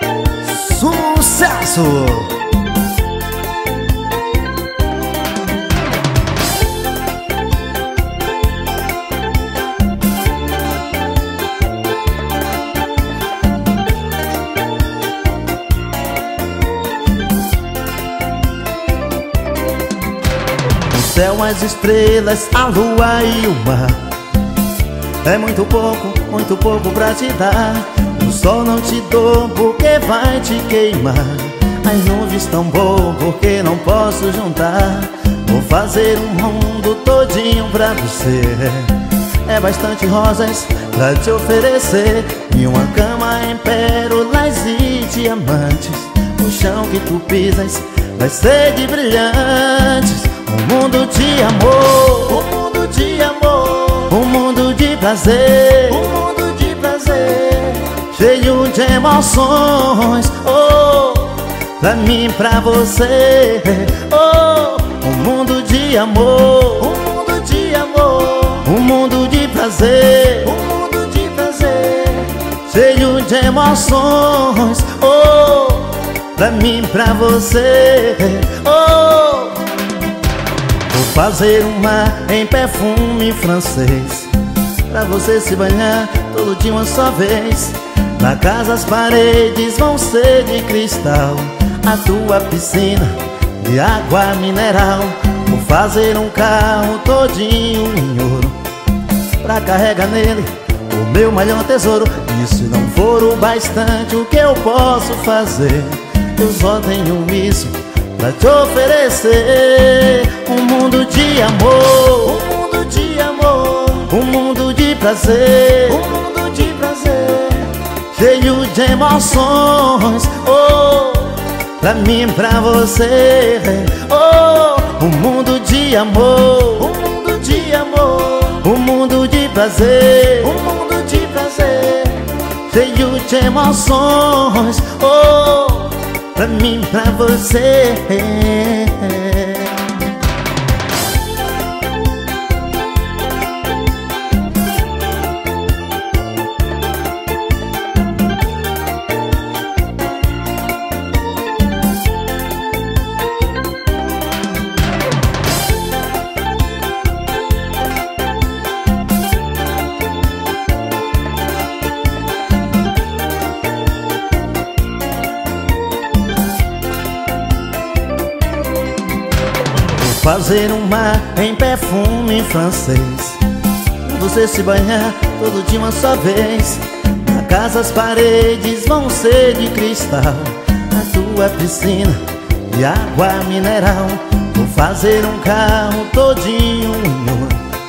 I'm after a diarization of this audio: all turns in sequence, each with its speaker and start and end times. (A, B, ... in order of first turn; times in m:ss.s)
0:00.4-0:02.4 A
0:20.9-0:24.2 A
0:25.2-1:19.7 A
1:20.9-1:24.3 A
1:24.8-1:38.6 A
1:39.4-2:19.9 A
2:49.9-2:53.4 A
2:54.0-3:07.6 A